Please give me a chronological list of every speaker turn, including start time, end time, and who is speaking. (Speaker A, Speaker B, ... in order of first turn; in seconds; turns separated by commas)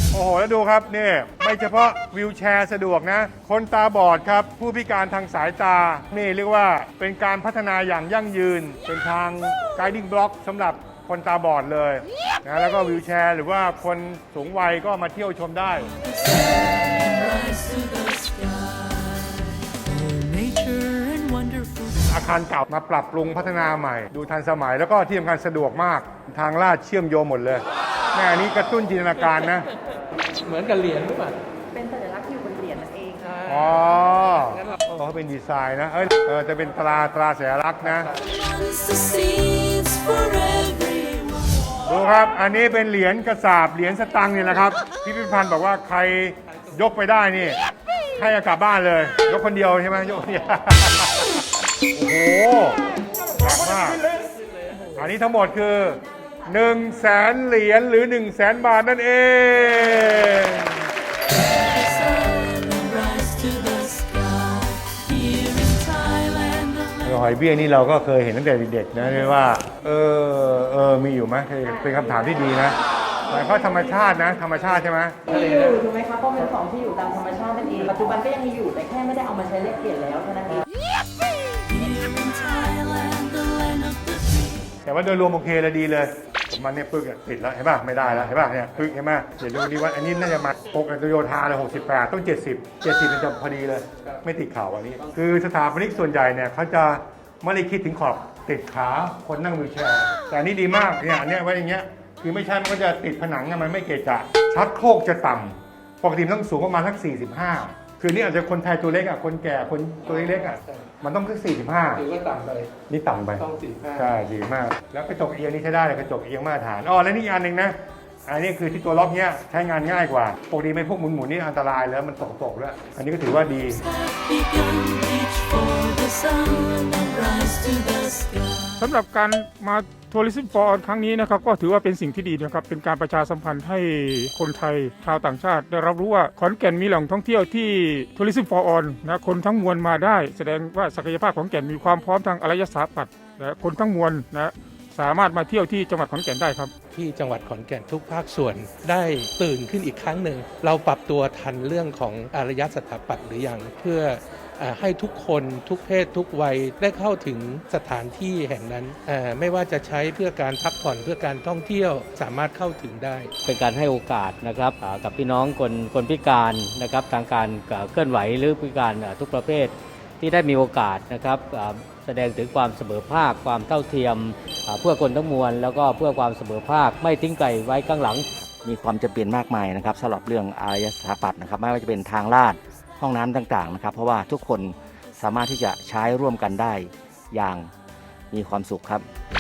Speaker A: 0.1-15.9, Speaker B: 15.9-22.1, Speaker A: 22.1-29.7, Speaker C: 30.4-31.4, Speaker D: 31.7-33.4, Speaker A: 33.5-38.1, Speaker B: 38.1-41.7, Speaker A: 41.9-47.6, Speaker A: 48.2-54.0, Speaker A: 55.0-60.7, Speaker B: 61.4-67.2, Speaker A: 67.0-75.2, Speaker D: 75.3-80.7, Speaker B: 81.6-84.7, Speaker A: 84.8-112.0, Speaker C: 110.6-110.9, Speaker C: 112.0-112.8, Speaker A: 112.9-113.5, Speaker C: 113.4-114.0, Speaker A: 114.0-117.8, Speaker A: 118.3-123.8, Speaker B: 123.7-128.8, Speaker E: 128.8-146.7, Speaker C: 146.9-163.3, Speaker F: 163.4-178.3, Speaker G: 178.6-187.7, Speaker G: 188.3-189.1